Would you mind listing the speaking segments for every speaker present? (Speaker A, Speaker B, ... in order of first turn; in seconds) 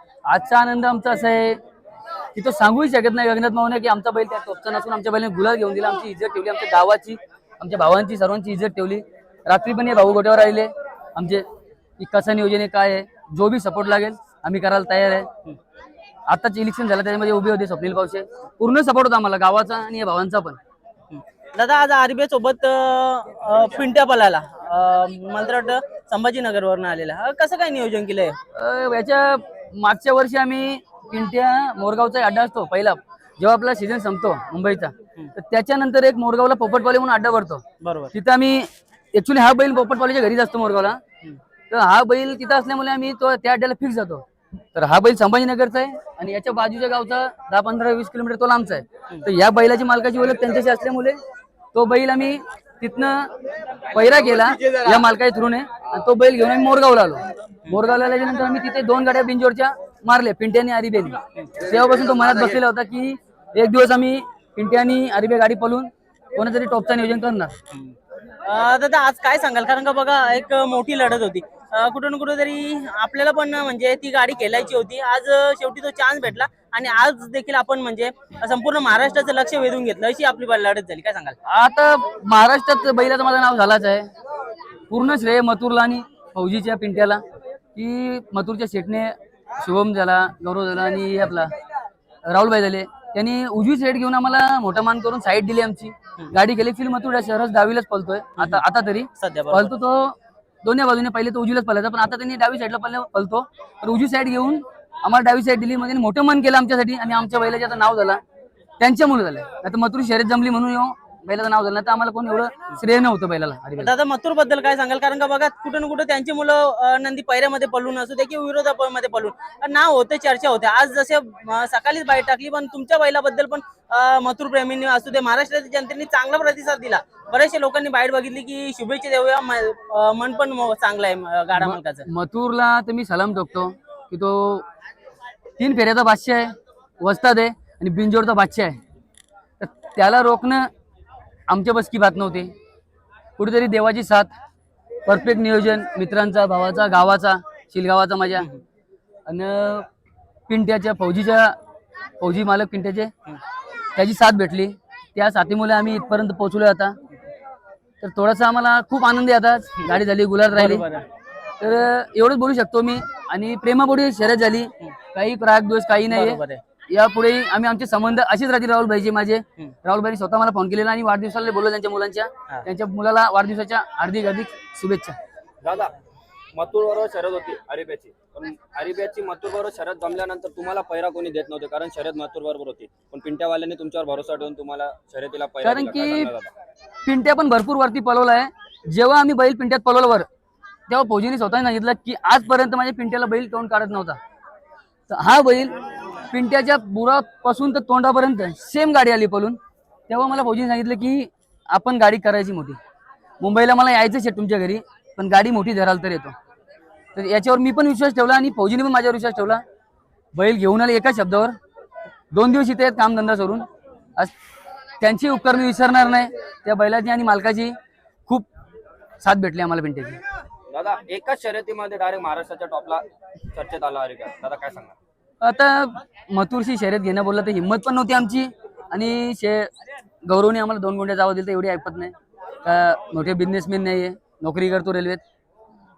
Speaker A: 0.3-1.6, 2.4-11.4, 12.0-15.3, 16.3-20.6, 28.5-37.6, 38.1-41.0, 41.7-44.2, 44.8-51.2, 51.7-53.3, 53.9-67.5, 81.5-84.1, 84.9-87.2, 87.8-91.5, 92.3-108.2, 108.8-113.9, 131.6-134.7, 135.6-138.8, 139.6-140.7, 141.5-142.5, 143.4-144.3, 145.1-148.5, 149.3-149.9, 150.5-151.6, 152.2-153.1, 153.9-157.0, 158.0-160.8, 161.6-175.2, 185.6-186.3, 187.1-190.3, 190.9-194.2, 195.1-195.7, 196.3-199.6, 200.1-202.8, 203.4-206.3, 207.2-209.6, 210.3-211.5, 212.3-213.7, 215.0-217.7, 219.2-220.2, 225.4-229.7, 230.2-232.1, 232.6-235.2
Speaker B: 21.1-28.4, 37.8-38.1, 67.7-81.4, 98.4-98.6, 99.2-99.7, 113.8-132.1, 160.5-161.1, 166.1-166.6
Speaker C: 175.6-175.9, 176.6-186.5, 220.7-224.9